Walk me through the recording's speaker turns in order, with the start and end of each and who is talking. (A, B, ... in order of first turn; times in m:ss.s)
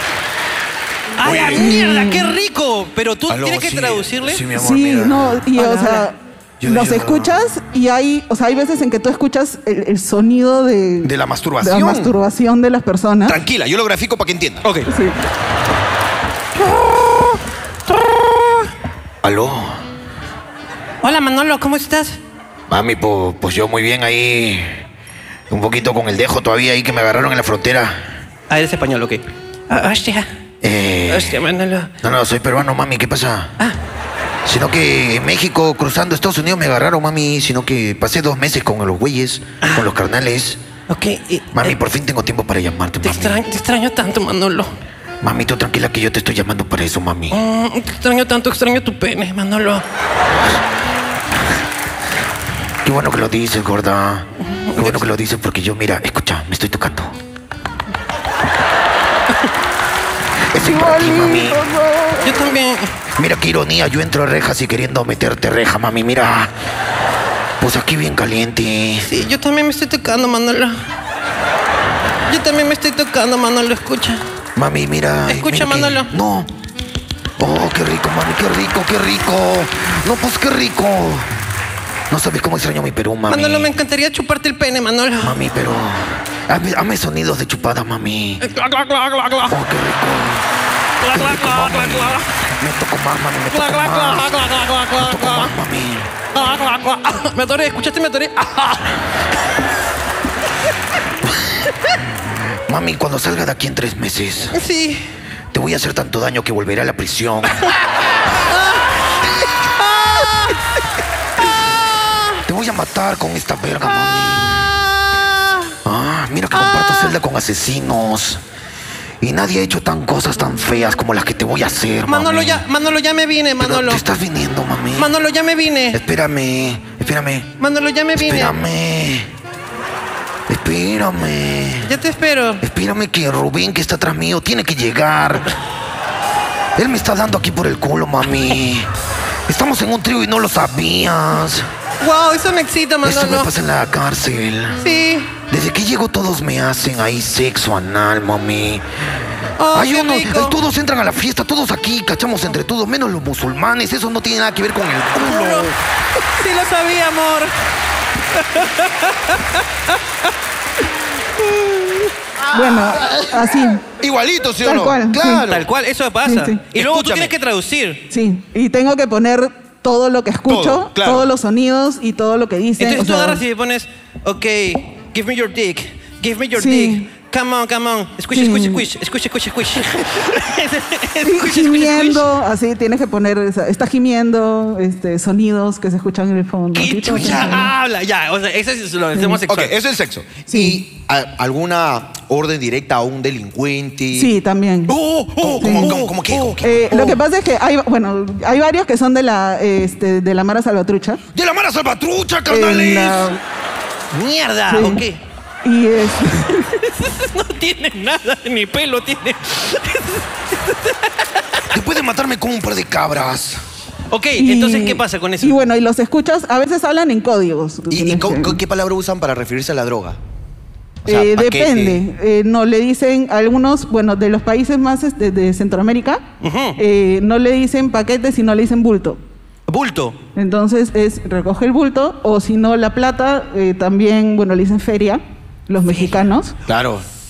0:01.2-0:04.4 A
0:01.2-0:01.6 B
0:01.6-0:02.3 C
0:03.9-0:05.6 D
0:04.5-0:13.4 C
0:06.7-0:07.3 D
0:11.2-0:12.1 B
0:13.3-0:14.6 B
0:14.9-0:15.2 C
0:19.2-0:19.8 D
0:21.0-0:22.2 A
0:22.7-0:24.8 D
0:25.5-0:28.0 D
0:28.5-0:30.3 A
0:30.6-0:31.4 D
0:31.1-0:31.9 A
0:32.0-0:33.5 D
0:34.4-0:40.6 D
0:40.9-0:41.8 A
0:41.5-0:43.4 D
0:43.0-0:44.7 A
0:45.2-0:47.3 D
0:47.3-0:49.8 A
0:52.8-0:54.2 D
0:54.6-0:55.1 A
0:54.8-0:57.1 D
1:00.5-1:01.7 D
1:02.2-1:02.9 A
1:03.2-1:06.5 D
1:07.6-1:09.0 D
1:09.0-1:10.8 A
1:12.3-1:14.2 A
1:14.6-1:16.5 D
1:15.3-1:16.1 A
1:17.4-1:21.3 D
1:22.1-1:23.7 D
1:23.3-1:25.4 A
1:25.2-1:28.4 D
1:28.4-1:29.5 A
1:29.5-1:30.4 D
1:31.0-1:32.2 A
1:31.1-1:34.4 D
1:33.5-1:35.5 A
1:35.0-1:36.1 D
1:36.3-1:38.9 A
1:42.7-1:44.5 D
1:44.5-1:45.0 A
1:45.5-1:47.7 D
1:50.0-1:50.5 A
1:52.4-1:54.7 D
1:55.1-1:55.6 A
1:55.8-1:58.4 D
1:56.6-1:57.1 A
1:59.2-2:02.6 D
2:02.0-2:04.0 A
2:03.6-2:05.1 D
2:04.9-2:06.0 A
2:05.9-2:07.5 D
2:07.6-2:08.5 A
2:08.1-2:09.3 D
2:10.5-2:11.9 D
2:11.8-2:12.6 A
2:12.6-2:15.5 D
2:16.8-2:18.9 D
2:19.5-2:21.7 D
2:22.0-2:23.5 A
2:23.0-2:24.8 D
2:24.8-2:25.3 A
2:25.5-2:28.8 D
2:29.6-2:30.5 A
2:29.7-2:35.7 D
2:35.1-2:35.7 A
2:36.4-2:37.5 A
2:38.4-2:40.0 A
2:42.5-2:43.8 C
2:44.0-2:45.6 B
2:44.6-2:45.4 C
2:45.4-2:48.0 A
2:46.2-2:46.6 C
2:46.8-2:47.3 B
2:48.1-2:53.4 C
2:50.5-2:51.3 B
2:52.8-3:02.2 A
2:56.6-2:57.0 C
2:58.3-2:58.8 C
3:01.2-3:07.7 C
3:06.7-3:09.7 A
3:09.5-3:14.3 B
3:10.5-3:10.8 C
3:14.1-3:14.9 C
3:14.9-3:17.2 B
3:15.4-3:16.1 A
3:15.5-3:17.0 D
3:15.6-3:16.0 C
3:16.6-3:21.2 C
3:21.4-3:22.5 B
3:21.4-3:23.2 D
3:22.5-3:23.4 C
3:24.1-3:25.2 A
3:24.7-3:25.0 C
3:25.6-3:26.5 C
3:26.8-3:31.1 A
3:31.7-3:33.6 D
3:34.1-3:35.6 A
3:34.4-3:38.6 C
3:37.9-3:40.2 B
3:41.0-3:42.0 B
3:41.0-3:46.2 C
3:46.4-3:46.8 A
3:46.8-3:49.2 C
3:49.7-3:50.2 A
3:50.4-3:56.5 C
3:56.6-3:57.0 B